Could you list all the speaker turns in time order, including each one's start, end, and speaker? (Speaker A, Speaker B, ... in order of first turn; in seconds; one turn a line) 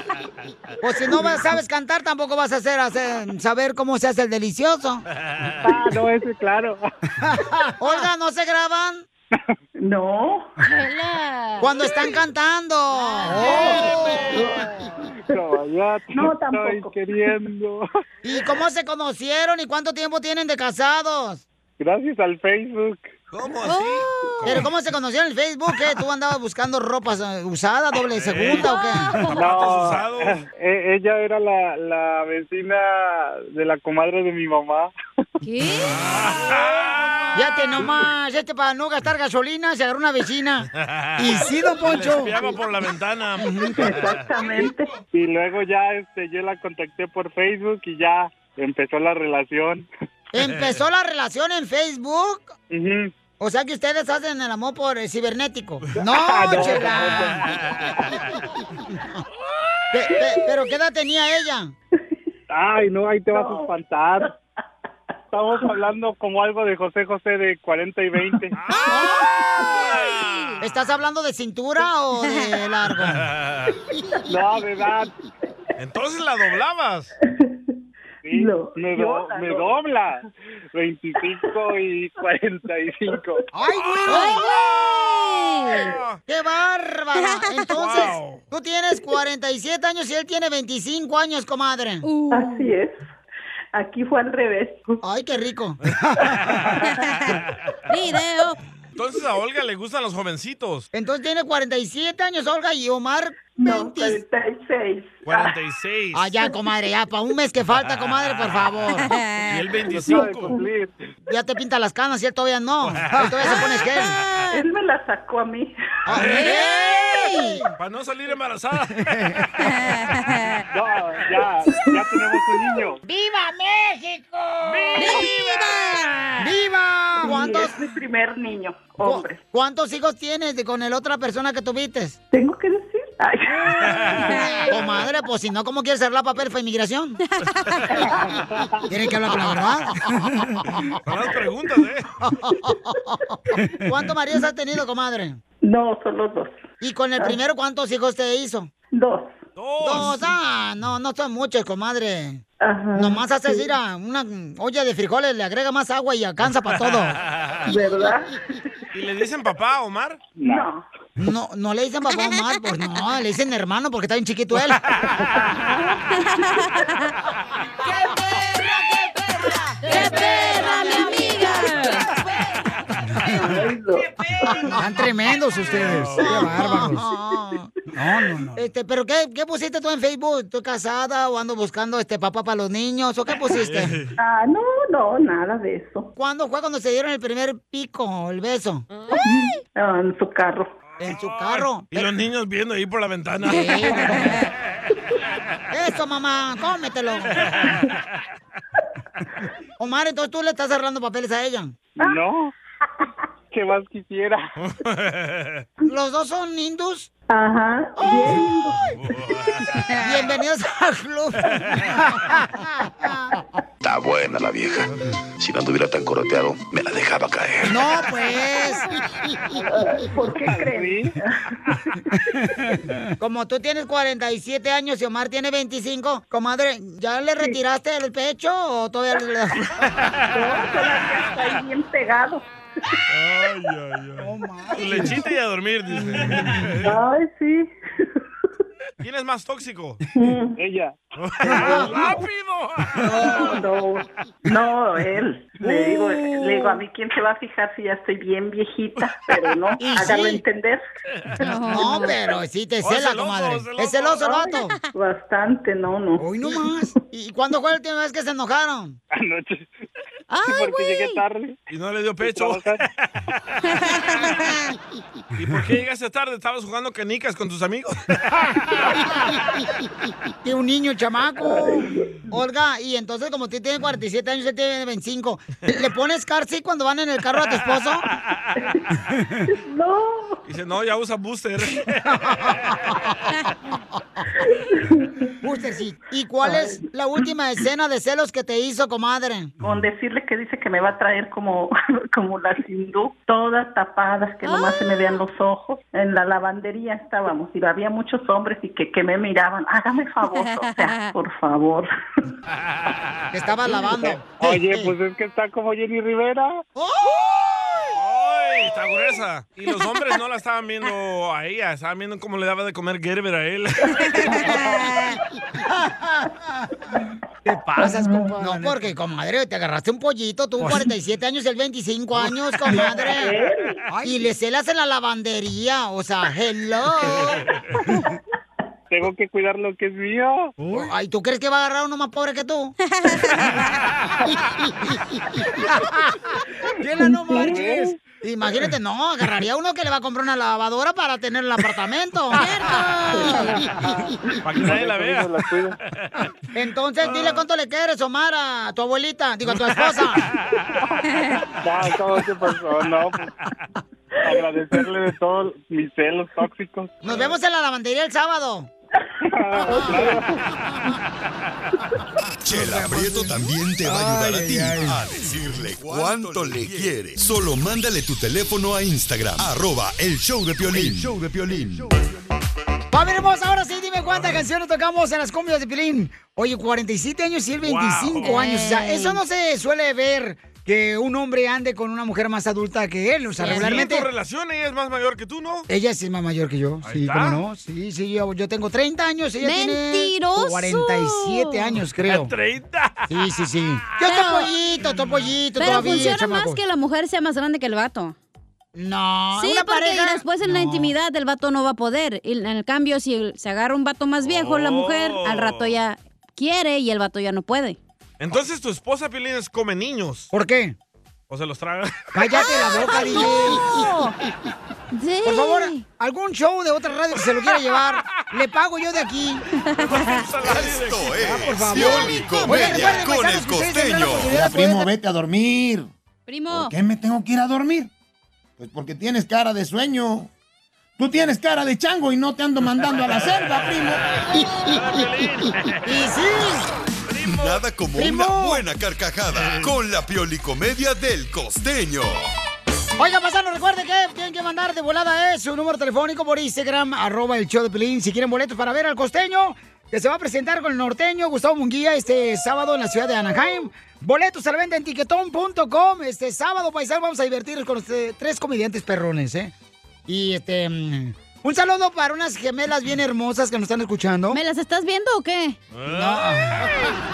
Speaker A: 0.8-5.0
Speaker B: 5.2-5.6
Speaker C: 5.6-6.8
Speaker A: 7.2-9.1
Speaker D: 9.8-10.5
Speaker E: 10.6-12.1
Speaker A: 11.6-13.9
Speaker E: 12.9-14.0
Speaker D: 13.4-14.9
Speaker C: 15.3-17.9
Speaker D: 16.1-17.0
Speaker A: 18.2-21.4
Speaker C: 21.8-23.1
Speaker B: 23.3-24.7
Speaker E: 23.6-24.5
Speaker A: 24.5-29.2
Speaker B: 28.1-28.7
Speaker E: 28.6-29.4
Speaker B: 29.3-30.4
Speaker C: 29.3-34.9
Speaker E: 35.4-36.0
Speaker B: 35.9-37.4
Speaker A: 37.4-42.4
Speaker B: 40.8-44.3
Speaker A: 43.4-43.8
Speaker D: 43.6-45.0
Speaker C: 45.1-49.9
Speaker A: 50.3-52.5
Speaker C: 52.7-53.1
Speaker A: 53.4-57.4
Speaker C: 56.0-57.5
Speaker B: 57.5-58.1
Speaker A: 59.9-61.7
Speaker D: 60.0-60.6
Speaker C: 62.5-64.3
Speaker D: 63.3-63.7
Speaker C: 65.3-68.6
Speaker B: 68.5-70.7
Speaker E: 68.8-70.6
Speaker D: 69.2-69.8
Speaker A: 70.6-73.2
Speaker B: 73.2-73.7
Speaker D: 73.9-74.2
Speaker C: 74.3-75.1
Speaker B: 75.8-77.1
Speaker D: 77.2-77.6
Speaker C: 78.2-83.4
Speaker D: 78.3-79.7
Speaker A: 83.5-84.4
Speaker B: 83.8-84.2
Speaker E: 84.1-85.9
Speaker B: 85.9-86.2
Speaker A: 86.3-92.0
Speaker E: 87.2-87.7
Speaker B: 87.8-88.4
Speaker E: 92.0-92.7
Speaker D: 92.3-93.1
Speaker D: 93.8-95.0
Speaker A: 95.0-96.7
Speaker E: 96.9-97.3
Speaker E: 97.9-98.6
Speaker B: 99.0-100.9
Speaker A: 100.9-104.2
Speaker D: 103.6-105.5
Speaker B: 105.2-106.3
Speaker A: 106.2-109.1
Speaker B: 108.0-108.7
Speaker E: 109.0-109.5
Speaker B: 109.5-110.6
Speaker C: 109.9-111.1
Speaker D: 110.1-110.6
Speaker A: 111.3-114.2
Speaker B: 112.9-113.6
Speaker D: 114.5-115.7
Speaker A: 116.1-117.7
Speaker B: 116.2-116.7
Speaker E: 116.2-117.5
Speaker B: 117.8-119.1
Speaker E: 119.6-120.5
Speaker C: 120.7-123.0
Speaker A: 123.0-125.1
Speaker B: 124.6-126.0
Speaker E: 125.0-126.2
Speaker A: 126.4-127.8
Speaker D: 127.2-129.4
Speaker A: 129.0-132.2
Speaker D: 132.3-134.3
Speaker E: 134.3-134.7
Speaker A: 134.7-137.2
Speaker E: 137.4-137.8
Speaker D: 137.9-138.3
Speaker A: 138.9-140.8
Speaker B: 141.1-142.1
Speaker A: 142.2-145.4
Speaker D: 145.6-146.6
Speaker A: 146.8-148.7
Speaker D: 148.9-150.1
Speaker B: 149.6-150.2
Speaker A: 149.8-152.4
Speaker D: 152.6-153.7
Speaker A: 152.9-157.2
Speaker B: 156.7-157.7
Speaker D: 157.7-158.5
Speaker B: 158.9-160.2
Speaker C: 160.4-160.7
Speaker D: 160.4-160.8
Speaker A: 161.2-164.8
Speaker E: 166.3-166.7
Speaker E: 169.8-172.1
Speaker A: 169.9-171.2
Speaker D: 170.0-170.6
Speaker A: 173.1-173.4
Speaker D: 173.2-175.1
Speaker A: 174.7-184.0
Speaker D: 175.7-178.4
Speaker B: 175.8-176.5
Speaker B: 183.6-184.1
Speaker D: 184.2-186.1
Speaker A: 186.2-188.9
Speaker D: 189.1-190.7
Speaker B: 191.0-194.3
Speaker A: 191.0-191.9
Speaker A: 193.5-194.3
Speaker A: 195.7-197.5
Speaker A: 199.8-201.7
Speaker C: 202.0-202.5
Speaker C: 203.5-204.5
Speaker B: 204.6-205.7
Speaker A: 205.9-207.1
Speaker D: 207.3-209.6
Speaker A: 208.0-208.4
Speaker B: 208.8-209.8
Speaker A: 210.0-213.3
Speaker B: 211.7-212.0
Speaker F: 213.8-214.9
Speaker F: 215.4-217.9
Speaker A: 217.7-218.9
Speaker D: 219.6-222.4
Speaker C: 220.2-221.1
Speaker A: 223.2-229.7
Speaker D: 230.3-232.4
Speaker B: 230.8-231.3
Speaker B: 233.1-236.9
Speaker A: 234.2-235.2
Speaker D: 236.8-237.7
Speaker B: 239.0-240.0
Speaker D: 240.2-240.6
Speaker C: 240.6-240.9
Speaker B: 241.2-243.3
Speaker C: 241.5-241.9
Speaker A: 241.5-241.9
Speaker D: 243.0-250.8
Speaker A: 249.8-250.4
Speaker D: 251.4-252.2
Speaker E: 251.4-252.2
Speaker A: 251.7-254.7
Speaker B: 252.8-254.4
Speaker D: 254.9-256.9
Speaker A: 256.2-259.0
Speaker C: 259.1-259.7
Speaker E: 260.3-261.2
Speaker C: 260.4-261.6
Speaker B: 261.7-263.1
Speaker C: 262.2-262.8
Speaker E: 263.8-264.6
Speaker B: 265.4-268.0
Speaker A: 270.4-278.1
Speaker D: 271.4-272.4
Speaker D: 279.5-280.4
Speaker B: 280.5-282.7
Speaker D: 284.4-285.3
Speaker A: 285.4-289.5
Speaker D: 286.4-286.9
Speaker D: 289.6-301.9
Speaker E: 294.4-295.2
Speaker E: 300.3-301.1
Speaker A: 303.3-304.9
Speaker C: 303.8-306.6
Speaker A: 306.8-307.5
Speaker B: 307.9-314.6
Speaker D: 314.3-314.7
Speaker A: 317.4-323.4
Speaker D: 317.8-318.4
Speaker D: 322.7-323.8
Speaker A: 323.9-327.3
Speaker C: 328.9-330.6
Speaker A: 330.7-332.8
Speaker E: 332.9-333.6
Speaker A: 335.8-336.2
Speaker A: 336.8-342.5
Speaker D: 336.9-337.6
Speaker C: 337.3-338.0
Speaker E: 342.3-343.5
Speaker C: 343.8-345.8
Speaker B: 344.4-346.1
Speaker A: 346.6-350.3
Speaker B: 347.0-347.5
Speaker B: 349.5-350.6
Speaker C: 351.6-353.3
Speaker C: 354.2-357.3
Speaker A: 357.0-358.7
Speaker C: 359.3-360.5
Speaker A: 359.8-360.1
Speaker G: 362.4-371.9
Speaker A: 362.5-365.0
Speaker A: 372.9-384.1
Speaker B: 377.6-378.4
Speaker E: 378.2-379.2
Speaker E: 383.4-383.9
Speaker B: 383.4-385.7
Speaker A: 385.7-392.3
Speaker B: 386.8-387.4
Speaker E: 389.4-391.8
Speaker B: 392.1-393.1
Speaker A: 393.1-396.6
Speaker E: 394.0-394.5
Speaker E: 395.6-398.2
Speaker A: 398.8-400.9
Speaker E: 399.4-407.8
Speaker B: 404.3-405.7
Speaker B: 408.2-410.3
Speaker A: 410.3-410.8
Speaker B: 411.3-412.2
Speaker A: 412.1-413.6
Speaker E: 412.4-414.2
Speaker E: 414.9-415.8
Speaker A: 415.2-419.4
Speaker E: 419.7-420.3
Speaker B: 419.8-423.0
Speaker G: 420.4-424.5
Speaker A: 421.2-424.9
Speaker H: 424.2-425.9
Speaker E: 426.3-426.8
Speaker H: 426.5-427.9
Speaker H: 428.6-430.3
Speaker H: 431.0-434.0
Speaker B: 434.2-436.1
Speaker A: 435.9-436.7
Speaker B: 437.1-437.7
Speaker G: 437.2-442.3
Speaker A: 437.9-438.6
Speaker B: 439.4-439.7
Speaker A: 443.0-459.5
Speaker A: 460.1-464.4
Speaker E: 464.3-465.6
Speaker B: 465.7-466.7
Speaker A: 465.9-466.7